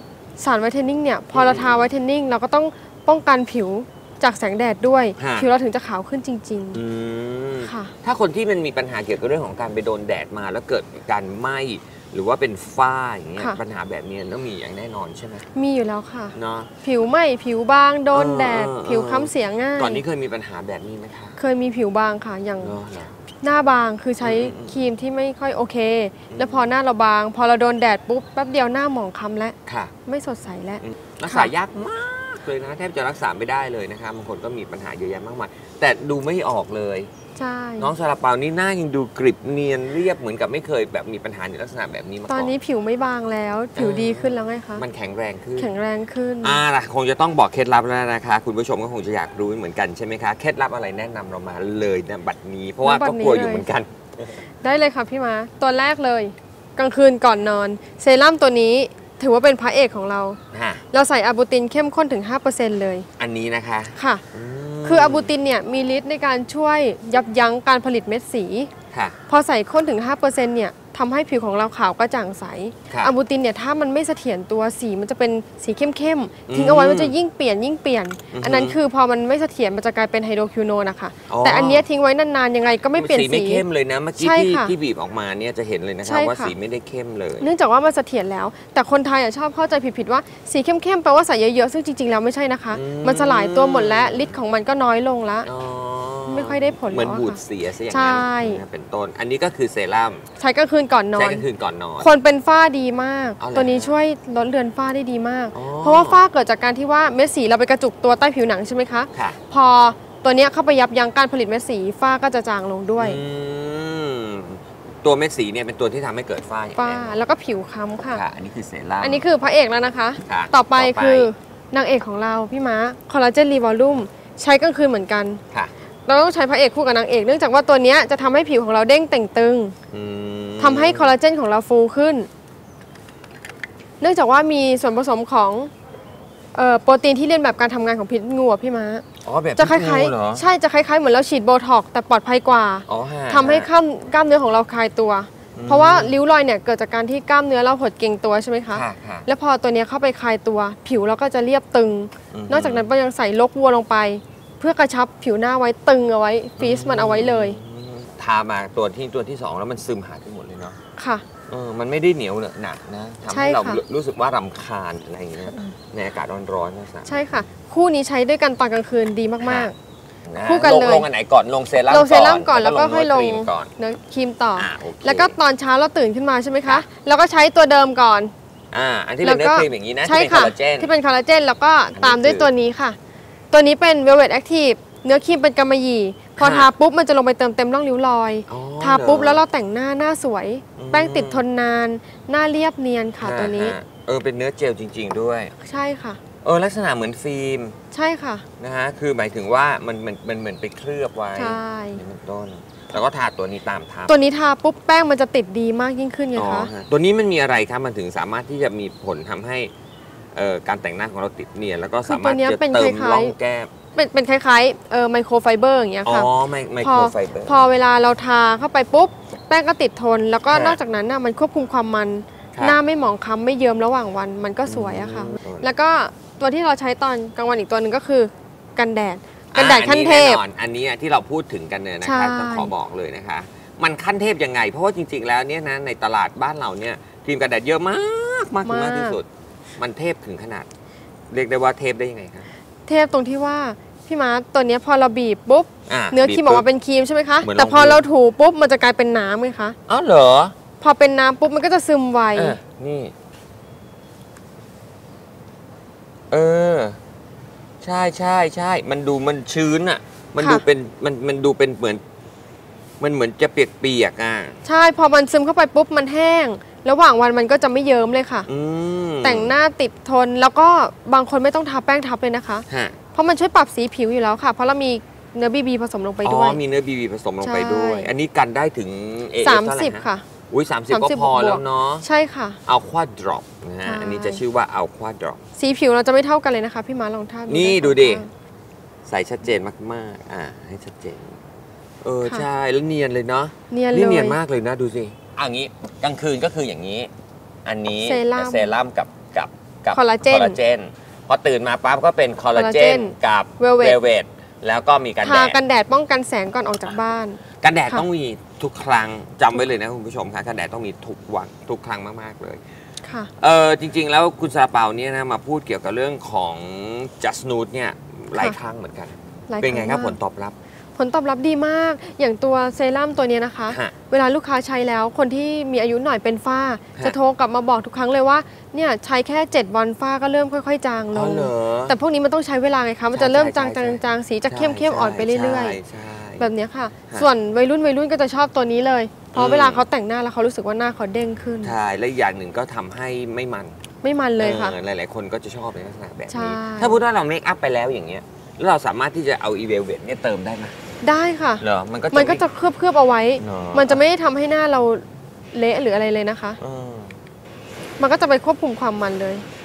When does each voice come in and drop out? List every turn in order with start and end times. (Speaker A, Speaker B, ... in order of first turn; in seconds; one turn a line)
Speaker A: 0.4-6.8
Speaker B: 1.3-1.9
Speaker B: 5.2-5.5
Speaker B: 6.7-15.4
Speaker A: 7.6-7.9
Speaker A: 15.5-20.0
Speaker B: 16.3-16.7
Speaker B: 18.1-21.4
Speaker A: 21.4-22.8
Speaker B: 22.6-23.1
Speaker A: 23.4-31.5
Speaker B: 24.2-24.8
Speaker B: 26.3-26.7
Speaker B: 29.6-29.9
Speaker B: 30.8-37.1
Speaker A: 37.4-37.9
Speaker B: 37.8-42.5
Speaker A: 42.3-44.8
Speaker B: 43.7-45.7
Speaker A: 45.6-46.6
Speaker B: 46.4-54.4
Speaker A: 52.8-53.7
Speaker A: 54.6-60.4
Speaker B: 60.5-60.8
Speaker A: 60.9-63.1
Speaker B: 63.2-65.3
Speaker A: 64.0-64.2
Speaker A: 64.8-68.7
Speaker A: 69.3-83.6
Speaker B: 76.5-77.1
Speaker B: 78.3-78.8
Speaker B: 81.3-81.8
Speaker B: 82.9-87.5
Speaker A: 84.2-84.7
Speaker A: 86.0-86.5
Speaker A: 87.4-95.5
Speaker B: 92.7-94.4
Speaker B: 95.4-100.2
Speaker A: 96.2-97.4
Speaker A: 97.9-98.6
Speaker A: 100.4-101.5
Speaker B: 101.2-102.1
Speaker A: 102.0-113.2
Speaker B: 103.4-103.9
Speaker B: 105.5-106.2
Speaker B: 109.1-109.4
Speaker B: 113.0-117.2
Speaker A: 116.8-118.2
Speaker B: 118.1-119.3
Speaker A: 119.0-125.4
Speaker B: 120.2-121.3
Speaker A: 126.0-129.7
Speaker B: 129.9-131.1
Speaker A: 130.6-132.3
Speaker A: 134.0-135.7
Speaker A: 136.5-139.0
Speaker B: 139.2-140.4
Speaker A: 139.6-157.6
Speaker B: 142.9-143.7
Speaker B: 145.5-146.2
Speaker B: 148.7-149.3
Speaker B: 152.3-152.9
Speaker B: 156.6-160.8
Speaker A: 161.0-161.2
Speaker B: 161.5-167.4
Speaker A: 163.3-163.8
Speaker A: 167.1-169.7
Speaker B: 169.4-169.7
Speaker B: 170.3-173.7
Speaker A: 170.4-171.1
Speaker A: 171.9-178.3
Speaker B: 174.6-175.3
Speaker B: 178.7-180.9
Speaker A: 179.2-183.0
Speaker B: 181.9-182.5
Speaker A: 183.5-193.8
Speaker B: 186.4-186.7
Speaker B: 188.5-189.4
Speaker B: 190.8-191.4
Speaker B: 193.2-195.5
Speaker A: 195.6-196.2
Speaker B: 196.4-197.8
Speaker A: 197.9-198.4
Speaker B: 198.6-204.2
Speaker A: 201.4-202.0
Speaker A: 204.1-206.7
Speaker B: 206.3-209.7
Speaker B: 210.3-213.7
Speaker A: 212.0-213.3
Speaker A: 213.9-216.3
Speaker B: 216.0-217.6
Speaker A: 216.8-230.4
Speaker B: 220.4-220.8
Speaker B: 222.5-222.8
Speaker B: 224.7-225.7
Speaker B: 229.5-239.3
Speaker A: 232.0-232.7
Speaker A: 238.6-239.2
Speaker B: 239.8-240.7
Speaker B: 241.3-242.5
Speaker A: 242.9-249.8
Speaker B: 245.9-246.7
Speaker B: 247.4-248.0
Speaker B: 249.9-250.6
Speaker A: 250.8-252.6
Speaker B: 252.3-253.1
Speaker B: 256.3-257.0
Speaker B: 257.8-262.0
Speaker A: 260.4-260.6
Speaker B: 263.0-264.6
Speaker A: 264.6-268.5
Speaker B: 268.5-269.5
Speaker A: 269.2-276.6
Speaker B: 272.7-272.9
Speaker B: 276.2-282.0
Speaker A: 277.4-278.1
Speaker A: 279.4-280.2
Speaker A: 280.9-282.6
Speaker B: 282.7-285.4
Speaker A: 283.8-284.4
Speaker A: 285.6-288.3
Speaker B: 287.5-288.2
Speaker B: 289.1-291.4
Speaker B: 292.0-297.1
Speaker A: 293.7-294.4
Speaker B: 297.6-305.6
Speaker A: 298.0-298.7
Speaker A: 299.9-300.6
Speaker A: 302.5-304.0
Speaker A: 305.2-308.0
Speaker B: 307.6-312.6
Speaker A: 313.0-313.3
Speaker B: 313.4-320.5
Speaker A: 319.5-320.2
Speaker A: 320.9-335.8
Speaker B: 323.7-323.9
Speaker B: 331.1-331.9
Speaker B: 333.1-336.5
Speaker A: 336.4-341.8
Speaker B: 339.3-339.8
Speaker B: 341.6-343.8
Speaker A: 344.0-344.8
Speaker B: 344.4-350.8
Speaker A: 346.3-347.0
Speaker A: 351.0-356.6
Speaker B: 351.6-352.4
Speaker B: 353.4-354.0
Speaker B: 356.6-357.2
Speaker A: 358.0-359.4